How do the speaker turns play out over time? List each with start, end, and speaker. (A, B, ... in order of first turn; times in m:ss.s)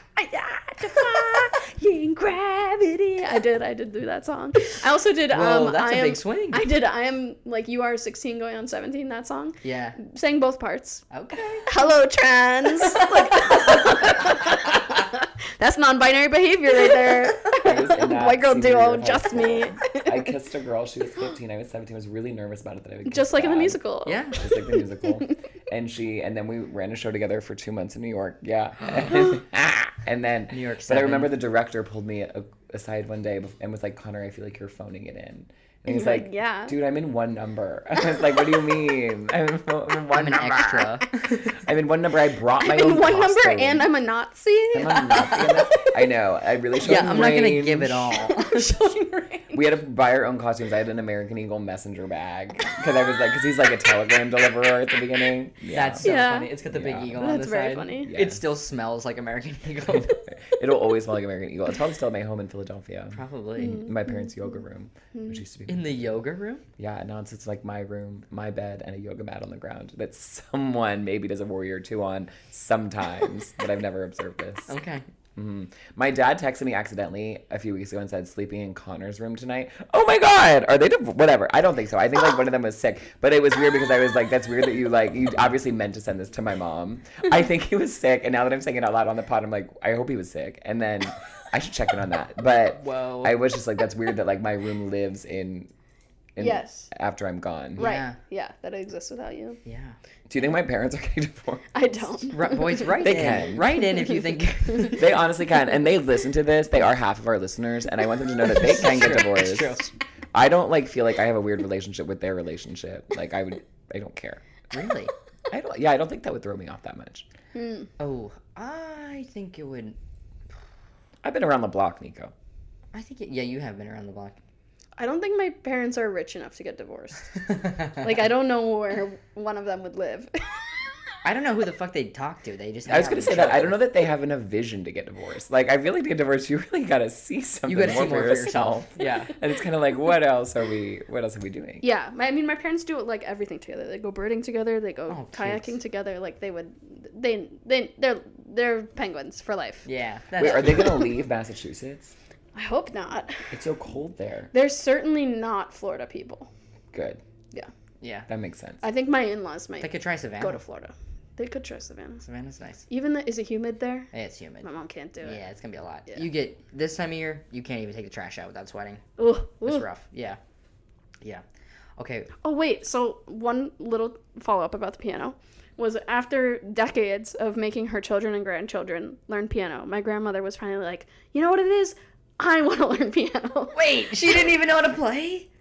0:00.2-0:11.0 A
0:05.3-0:06.6 B
0:09.6-0:10.0 B
0:11.1-0:11.6 B
0:11.6-0:20.1 A
0:12.8-0:14.8 B
0:17.6-0:23.8 C
0:23.0-0:25.3 A
0:24.0-0:24.4 B
0:24.3-0:41.0 C
0:30.5-0:31.3 B
0:35.9-0:36.7 A
0:40.1-0:41.4 B
0:41.6-0:43.9 C
0:42.6-0:45.9 A
0:44.7-0:48.2 C
0:45.1-0:45.5 B
0:46.8-0:48.7 B
0:48.2-0:49.6 A
0:49.5-0:56.1 C
0:55.7-1:00.2 B
0:56.0-0:56.5 A
0:56.6-0:57.3 C
0:57.2-0:58.1 A
0:58.0-0:58.4 C
0:59.9-1:06.2 C
1:03.1-1:03.9 B
1:03.6-1:04.3 A
1:05.1-1:05.4 A
1:05.7-1:06.6 B
1:06.8-1:14.7 C
1:14.7-1:15.0 B
1:15.4-1:35.7 C
1:32.7-1:33.4 B
1:36.4-1:37.8 C
1:36.4-1:36.9 A
1:37.8-1:38.2 B
1:37.8-1:39.6 A
1:39.6-1:40.0 B
1:40.3-1:42.2 C
1:41.7-1:43.0 A
1:42.3-1:45.1 B
1:43.0-1:43.7 C
1:44.9-1:54.4 C
1:48.5-1:49.8 B
1:54.7-1:55.1 B
1:55.5-1:57.2 C
1:57.6-1:57.9 A
1:58.0-2:00.0 B
2:01.2-2:02.3 C
2:02.9-2:04.4 B
2:05.0-2:10.7 A
2:07.5-2:08.0 B
2:11.2-2:13.8 B
2:12.9-2:21.8 C
2:17.7-2:19.3 B
2:21.8-2:29.9 A
2:25.1-2:25.8 B
2:29.8-2:31.0 B
2:30.4-2:32.1 C
2:30.6-2:31.1 A
2:32.6-2:33.4 A
2:33.5-2:34.5 C
2:34.5-2:36.5 A
2:36.9-2:37.2 C
2:38.0-2:38.3 B
2:38.3-2:38.8 C
2:38.8-2:42.2 A
2:39.8-2:40.6 B
2:42.2-2:42.9 B
2:42.9-2:44.1 A
2:44.1-2:44.7 B
2:44.6-2:45.4 A
2:45.2-2:49.0 B
2:49.2-2:49.8 A
2:49.6-2:50.4 B
2:52.0-2:52.3 B
2:52.4-3:04.4 A
3:03.7-3:05.5 B